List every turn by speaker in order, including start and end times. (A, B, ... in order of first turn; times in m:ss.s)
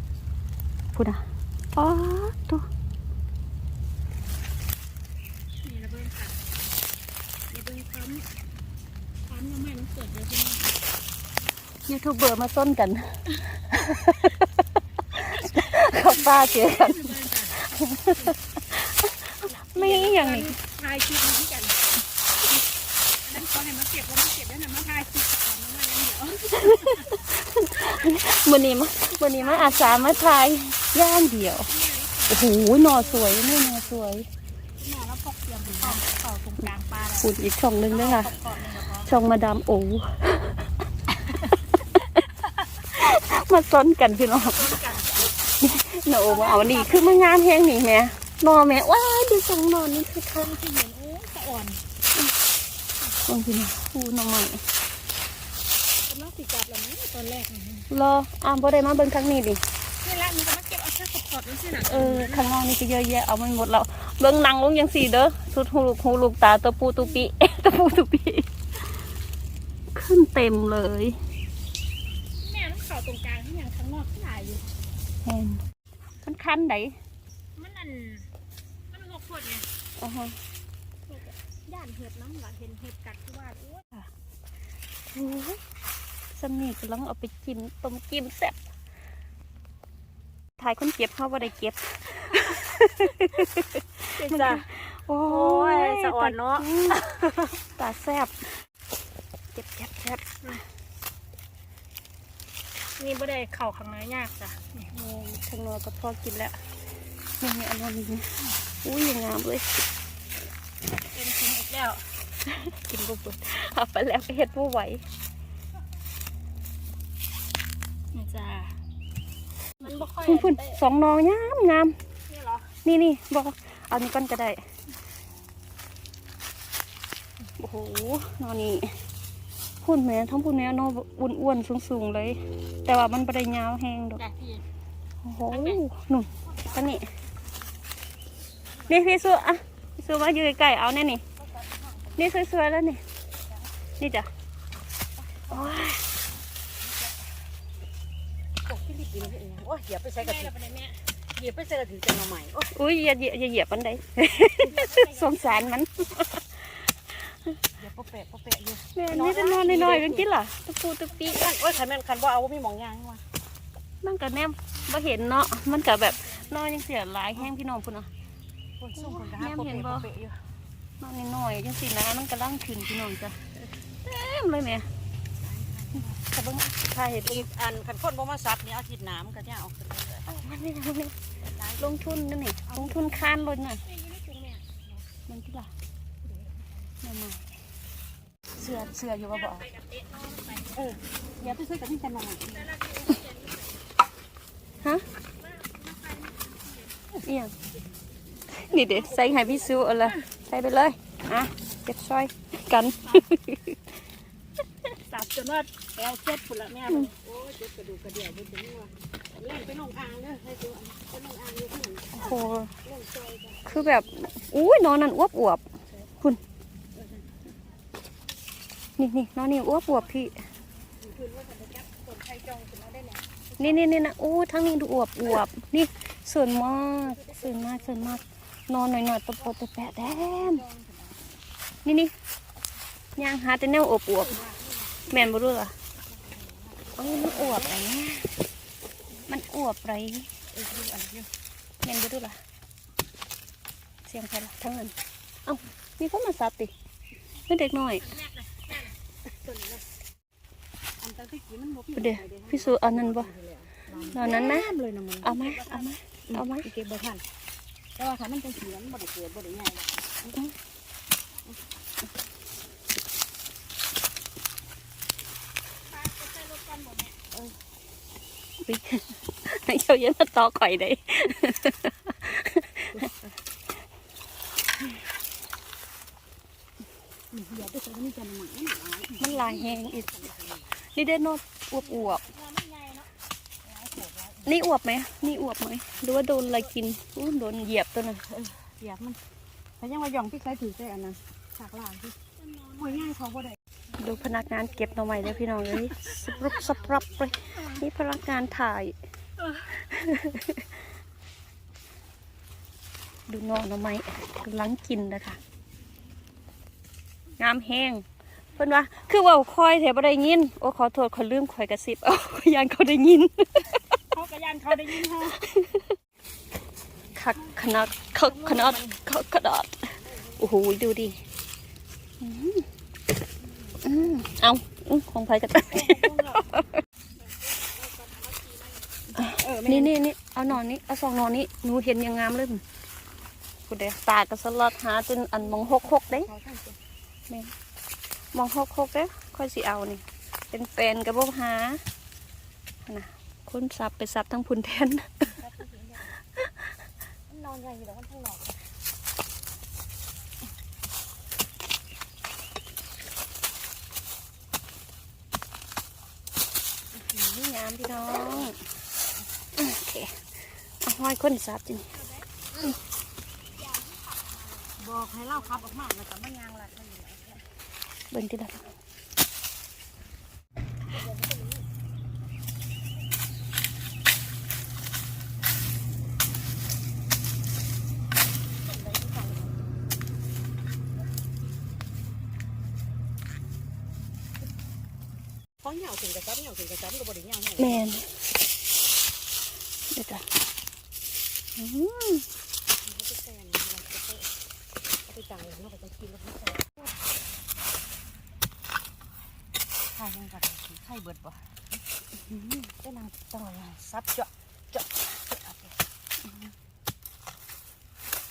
0:00.9-0:01.2 A
0:01.7-0:02.6 A
0:05.6-0:06.4 B
0:07.5-0:08.3 B
0:09.3-0:10.8 B
0:11.8-0:14.5 A
0:15.1-0:20.6 A
0:15.4-0:17.6 B
0:19.5-0:21.8 B
0:23.3-0:27.2 B
0:26.5-0:31.7 A
0:27.8-0:28.1 B
0:29.2-0:30.4 B
0:31.7-0:34.1 B
0:32.3-0:34.2 A
0:34.8-0:37.3 B
0:35.7-0:36.0 A
0:37.2-0:38.3 A
0:37.9-0:39.1 B
0:38.9-0:40.6 A
0:41.3-0:42.2 A
0:42.9-0:44.8 A
0:44.2-0:45.3 B
0:45.6-0:50.6 A
0:46.2-0:47.3 B
0:50.4-0:51.8 B
0:53.2-0:54.6 A
0:56.1-0:57.9 B
0:57.9-0:59.6 A
1:00.0-1:02.5 B
1:01.8-1:08.5 A
1:09.9-1:11.2 A
1:12.4-1:14.6 B
1:15.2-1:15.6 A
1:16.2-1:17.0 A
1:17.6-1:18.3 B
1:18.9-1:19.7 B
1:20.0-1:20.4 A
1:21.1-1:23.8 B
1:25.1-1:25.6 A
1:26.3-1:28.6 A
1:30.6-1:38.6 A
1:34.2-1:34.6 B
1:35.2-1:37.3 C
1:39.5-1:40.3 A
1:43.0-1:44.9 B
1:44.9-1:46.6 A
1:47.4-1:48.3 A
1:48.8-1:49.8 A
1:50.8-1:52.1 B
1:52.5-1:55.0 A
1:58.1-1:58.8 B
1:59.8-2:00.8 B
1:59.8-2:02.0 A
2:02.3-2:02.7 B
2:02.8-2:04.6 A
2:07.6-2:09.0 A
2:09.8-2:14.2 A
2:14.2-2:14.6 B
2:15.2-2:17.1 A
2:15.5-2:15.8 B
2:16.3-2:17.0 C
2:18.8-2:19.2 C
2:18.9-2:21.2 A
2:21.4-2:22.5 C
2:22.2-2:23.0 A
2:24.0-2:24.3 A
2:25.2-2:25.8 C
2:25.5-2:26.1 A
2:26.8-2:27.4 C
2:28.6-2:30.5 C
2:30.2-2:31.0 B
2:31.3-2:32.7 C
2:32.7-2:37.5 A
2:34.6-2:35.8 B
2:37.8-2:40.3 C
2:38.9-2:41.5 A
2:41.1-2:41.6 B
2:41.3-2:43.2 C
2:44.0-2:48.1 A
2:45.4-2:46.5 B
2:48.8-2:50.4 C
2:48.9-2:50.1 A
2:51.0-2:54.9 A
2:55.4-2:56.3 C
2:56.2-2:57.4 A
2:57.2-3:00.3 C
3:00.3-3:01.2 A
3:01.5-3:03.4 C
3:01.8-3:03.8 A
3:03.8-3:04.7 B
3:05.3-3:05.7 A
3:06.2-3:06.7 C
3:07.0-3:07.5 A
3:08.6-3:09.6 C
3:08.7-3:09.6 A
3:09.1-3:10.8 B
3:10.7-3:12.7 C
3:12.5-3:13.8 B
3:15.3-3:17.1 B
3:17.2-3:17.5 A
3:18.5-3:23.8 A
3:18.7-3:20.1 C
3:24.8-3:27.1 B
3:26.9-3:27.1 A
3:27.2-3:34.0 C
3:32.1-3:32.7 A
3:33.6-3:35.6 A
3:37.0-3:37.2 C
3:39.0-3:40.4 A
3:41.0-3:43.9 C
3:43.6-3:50.6 A
3:47.0-3:48.2 C
3:49.8-3:51.3 C
3:51.8-3:52.1 A
3:53.2-3:54.4 A
3:54.2-3:55.2 C
3:55.1-3:55.7 A
3:56.0-3:57.8 C
3:57.0-3:58.3 A
3:59.3-4:00.3 A
4:00.5-4:01.3 C
4:01.8-4:02.4 A
4:04.0-4:06.7 A
4:07.5-4:08.1 A
4:08.0-4:08.9 B
4:09.2-4:09.8 C
4:11.0-4:15.4 C
4:11.9-4:13.3 A
4:13.9-4:14.5 B
4:14.1-4:14.7 A
4:15.2-4:16.6 A
4:15.3-4:15.8 B
4:16.3-4:17.2 C
4:18.0-4:20.3 C
4:25.8-4:27.2 B
4:27.3-4:27.6 C
4:28.6-4:33.1 A
4:37.3-4:40.8 C
4:39.2-4:40.2 A
4:40.8-4:42.2 A
4:41.8-4:43.1 B
4:43.6-4:44.6 C
4:44.4-4:48.2 A
4:48.3-4:49.2 C
4:49.8-4:52.2 C
4:52.4-4:53.1 B
4:52.8-4:53.6 C
4:54.0-4:58.9 A
4:54.0-4:55.5 B
4:55.7-4:57.5 C
4:59.4-4:59.7 B
4:59.7-5:00.7 A
5:03.3-5:05.4 A
5:07.4-5:08.0 A
5:08.6-5:13.9 A
5:14.1-5:15.4 B
5:14.9-5:15.9 A
5:17.1-5:21.2 A
5:17.3-5:17.8 C
5:18.2-5:19.0 B
5:20.1-5:20.5 C
5:22.2-5:22.7 A
5:23.4-5:24.0 C
5:23.8-5:26.7 A
5:25.7-5:26.4 C
5:27.2-5:29.0 B
5:29.2-5:30.0 C
5:29.2-5:32.6 A
5:33.7-5:36.3 A
5:35.4-5:36.8 C
5:37.3-5:37.5 A
5:38.3-5:41.8 A
5:42.8-5:45.3 A
5:45.3-5:46.1 C
5:46.4-5:46.7 A
5:47.3-5:48.7 C
5:57.0-5:58.6 A
5:59.5-6:02.0 A
6:01.9-6:02.3 B
6:03.5-6:05.8 B
6:04.8-6:07.4 C
6:08.1-6:08.8 A
6:10.9-6:11.6 C
6:18.7-6:19.6 C
6:25.6-6:27.8 C
6:27.6-6:28.1 A
6:29.9-6:30.2 A
6:31.6-6:32.2 A
6:32.8-6:34.3 C
6:35.0-6:36.9 C
6:39.9-6:41.8 C
6:42.2-6:42.7 A
6:42.8-6:45.8 C
6:46.2-6:46.5 A